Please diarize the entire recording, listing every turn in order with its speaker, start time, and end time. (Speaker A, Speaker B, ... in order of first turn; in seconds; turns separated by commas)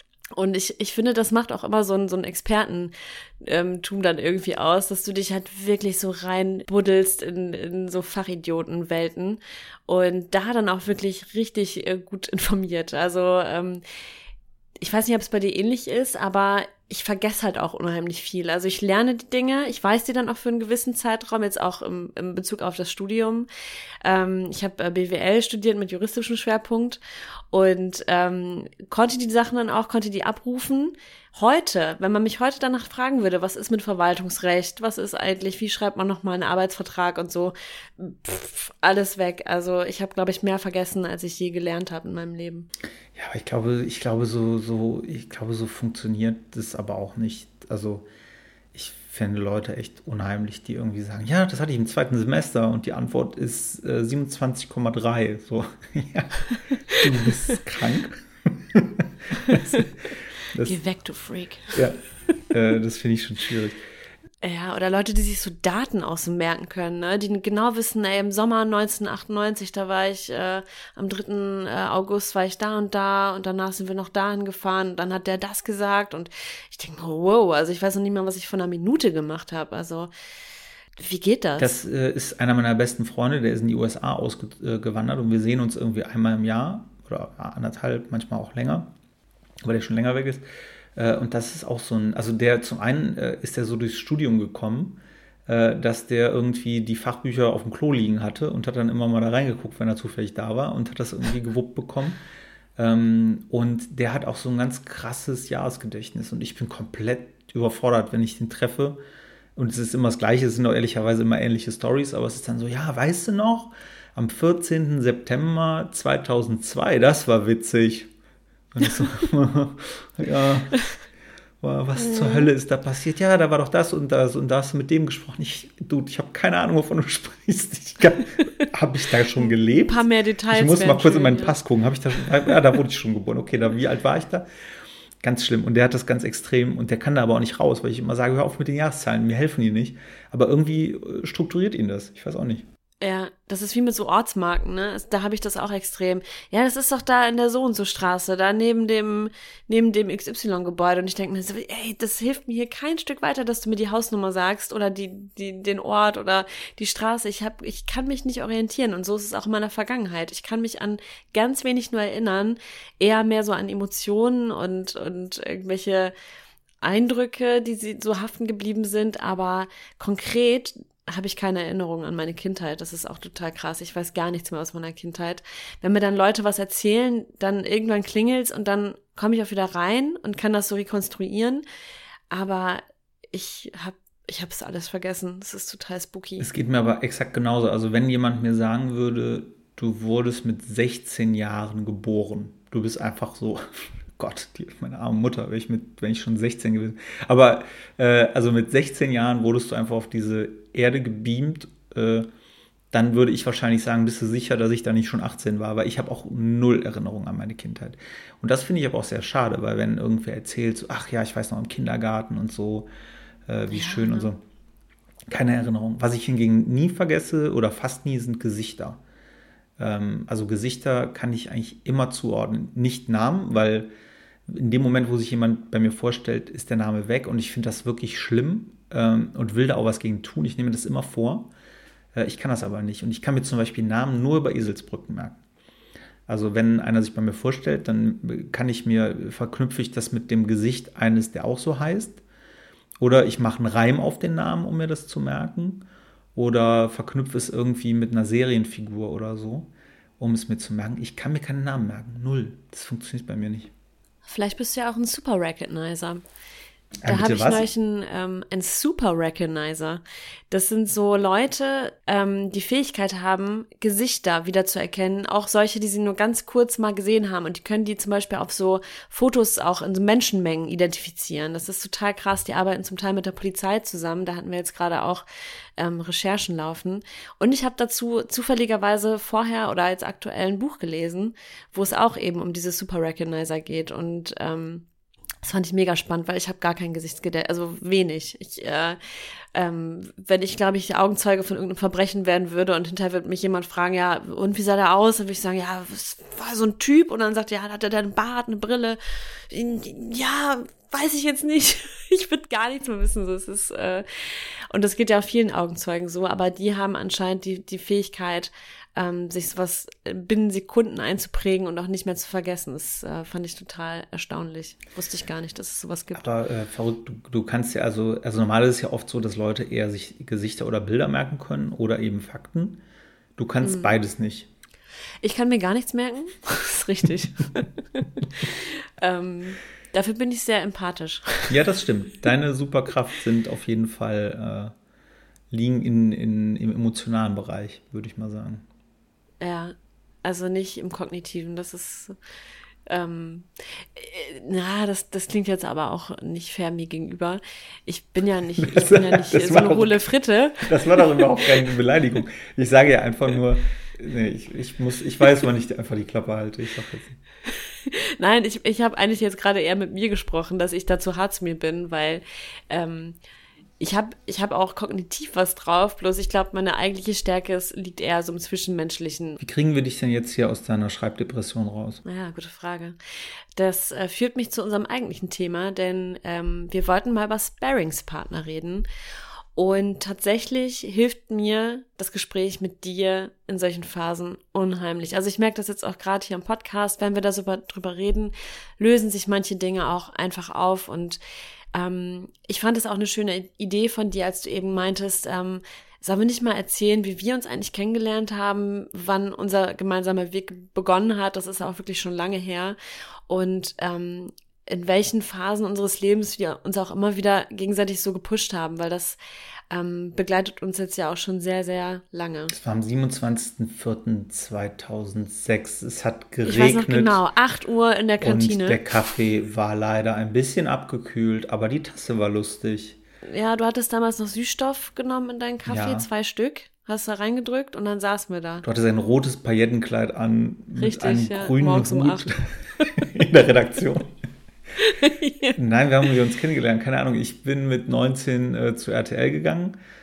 Speaker A: 0.3-13.8, Speaker A: 14.8-23.5, Speaker A: 24.0-42.7, Speaker B: 43.1-48.1, Speaker B: 48.7-59.9, Speaker A: 59.5-59.8, Speaker B: 60.5-60.8, Speaker A: 60.6-61.8, Speaker B: 61.7-63.8, Speaker A: 64.4-80.1, Speaker A: 81.0-81.8, Speaker B: 81.6-88.9, Speaker B: 89.6-90.4, Speaker B: 91.0-102.2, Speaker B: 102.8-109.0, Speaker B: 109.5-118.1, Speaker B: 118.7-120.8, Speaker B: 121.6-134.5, Speaker A: 122.0-122.5, Speaker A: 129.4-131.6, Speaker B: 135.2-142.7, Speaker A: 143.0-166.1, Speaker A: 166.8-181.6, Speaker A: 182.3-186.5, Speaker B: 186.4-202.3, Speaker B: 202.9-212.9, Speaker B: 213.5-214.4, Speaker A: 213.7-214.3, Speaker B: 215.3-219.0, Speaker B: 219.8-223.9, Speaker B: 224.5-231.5, Speaker B: 232.2-235.4, Speaker B: 236.3-242.2, Speaker B: 243.0-253.7, Speaker A: 254.2-256.2, Speaker B: 257.0-257.7, Speaker A: 257.1-275.2, Speaker A: 275.8-284.9, Speaker A: 285.4-289.0, Speaker A: 289.5-316.2, Speaker B: 316.1-322.8, Speaker B: 323.4-324.5, Speaker A: 323.6-323.9, Speaker A: 325.2-331.5, Speaker B: 331.5-334.7, Speaker B: 335.5-338.6, Speaker A: 339.4-342.2, Speaker A: 342.9-351.5, Speaker B: 348.6-350.1, Speaker B: 350.6-357.2, Speaker A: 357.8-363.2, Speaker A: 363.8-369.4, Speaker B: 369.4-372.0, Speaker A: 372.0-373.0, Speaker A: 373.5-378.9, Speaker A: 379.5-391.2, Speaker A: 391.7-402.8, Speaker A: 403.3-409.2, Speaker A: 409.7-412.5, Speaker B: 412.5-417.2, Speaker A: 416.4-418.9, Speaker B: 418.2-423.0, Speaker A: 423.2-428.6, Speaker B: 425.6-426.1, Speaker B: 428.6-434.1, Speaker A: 430.8-432.3, Speaker A: 434.8-435.6, Speaker B: 435.5-439.8